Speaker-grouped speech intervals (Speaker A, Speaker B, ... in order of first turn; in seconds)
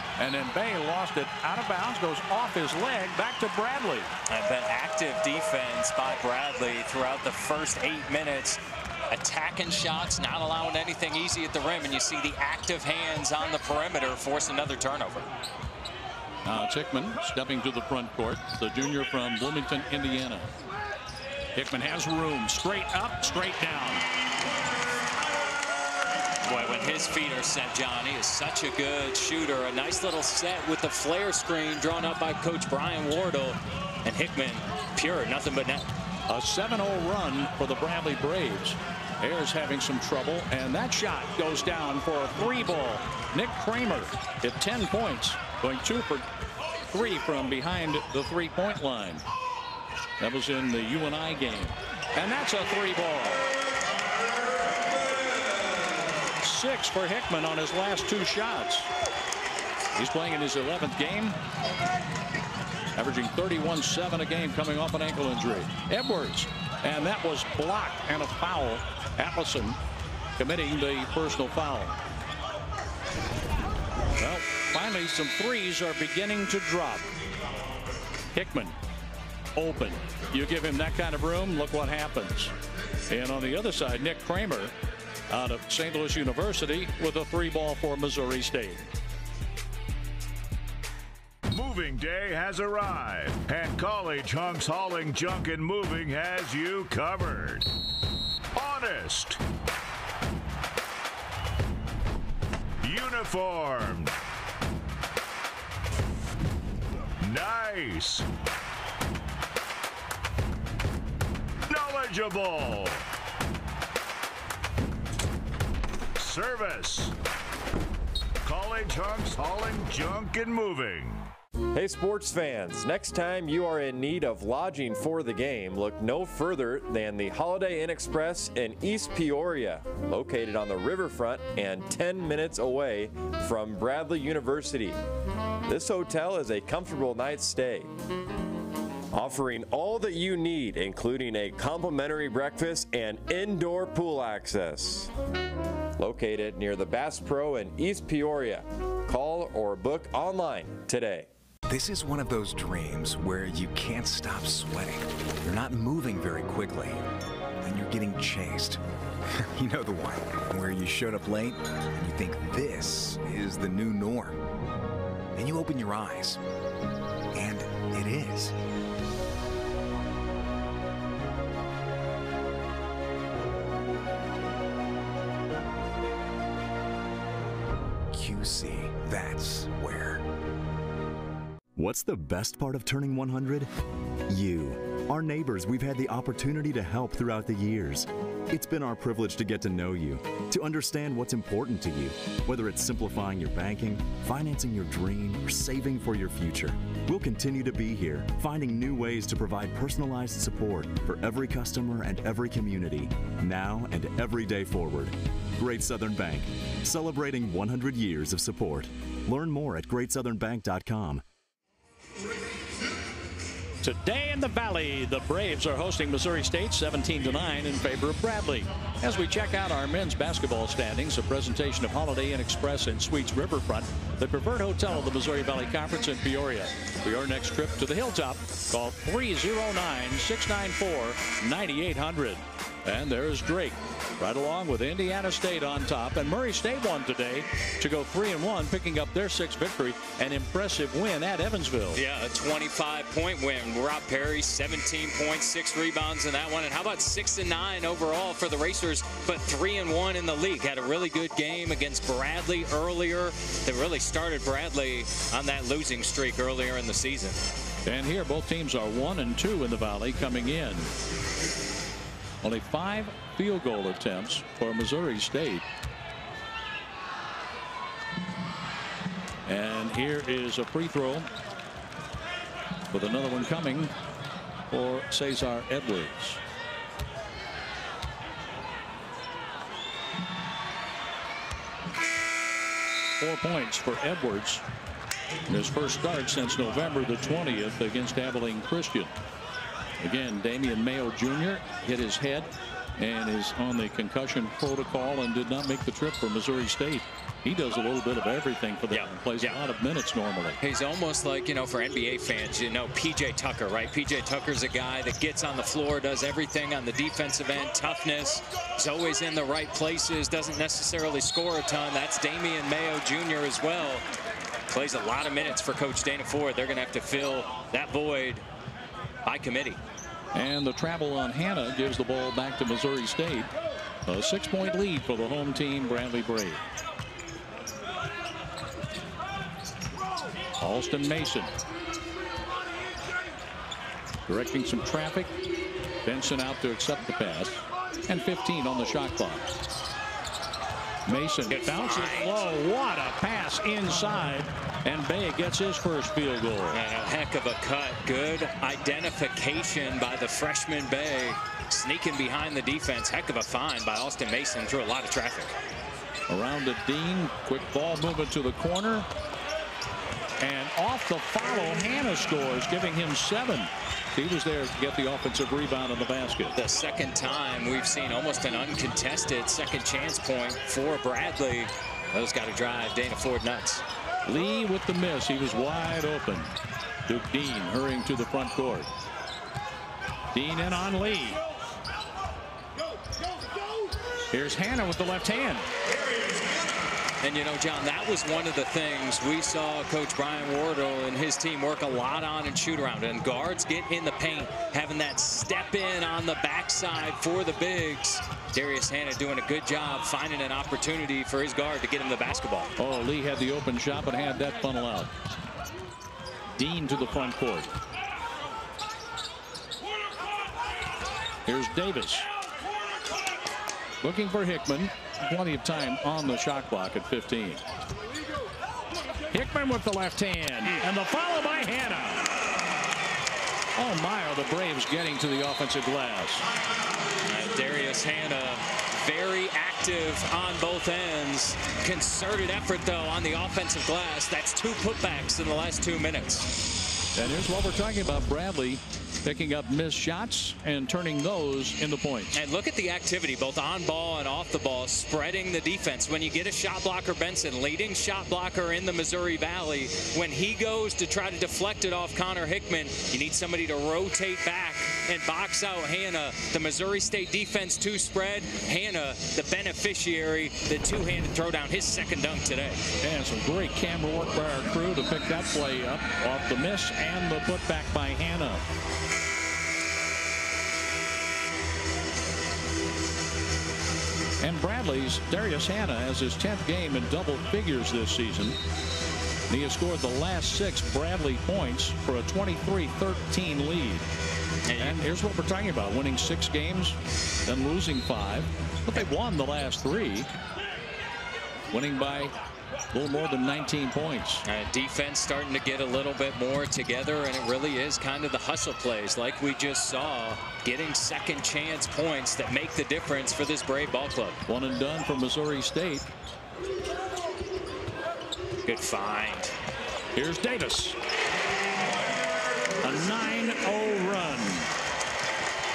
Speaker A: 0.2-4.1, 16.4-20.5, 21.5-24.1, 36.3-46.3, 46.9-49.2, 50.2-53.4, 56.4-58.9, 60.0-61.4, 63.0-69.8, 70.4-72.0, 74.2-77.1, 78.3-78.8, 79.5-82.5, 83.1-84.7, 85.3-88.9, 213.8-242.0, 257.9-260.9, 262.4-265.7, 269.5-271.3, 272.9-273.9, 274.7-276.4, 283.2-284.6, 285.5-289.1, 290.0-300.6, 320.3-323.5, 324.1-326.6, 330.6-331.5, 334.3-335.3, 336.1-339.5, 341.1-346.8, 356.3-359.1, 360.4-366.6, 374.3-376.5, 377.1-378.9, 380.3-381.4, 384.3-385.7, 402.8-405.1, 406.5-407.7, 411.5-412.3, 414.0-417.6, 419.3-422.3, 423.8-426.4, 437.2-442.4, 463.0-468.6, 474.4-478.6, 479.5-484.1, 484.8-490.3, 491.7-492.3, 492.9-494.4, 504.5-506.1, 510.1-511.0, 512.8-514.7
Speaker B: 4.3-15.3, 26.4-35.9, 241.9-257.4, 298.9-299.6, 300.6-314.1, 314.7-318.4, 319.2-319.8, 341.5-342.4, 346.7-355.6, 366.6-373.8, 387.2-402.7, 427.3-436.5, 442.3-462.8, 484.7-485.1, 494.5-504.4, 508.6-509.5
Speaker C: 91.5-97.7, 98.5-99.4, 102.8-104.1, 107.2-108.3, 111.7-113.0, 116.2-117.1, 118.4-121.3
Speaker D: 121.8-135.0, 135.7-137.9, 139.1-145.1, 146.0-151.3
Speaker E: 151.7-157.0, 157.6-158.8, 159.4-164.4, 165.3-166.4, 167.3-168.6, 178.1-180.3
Speaker F: 181.8-183.7, 184.3-211.2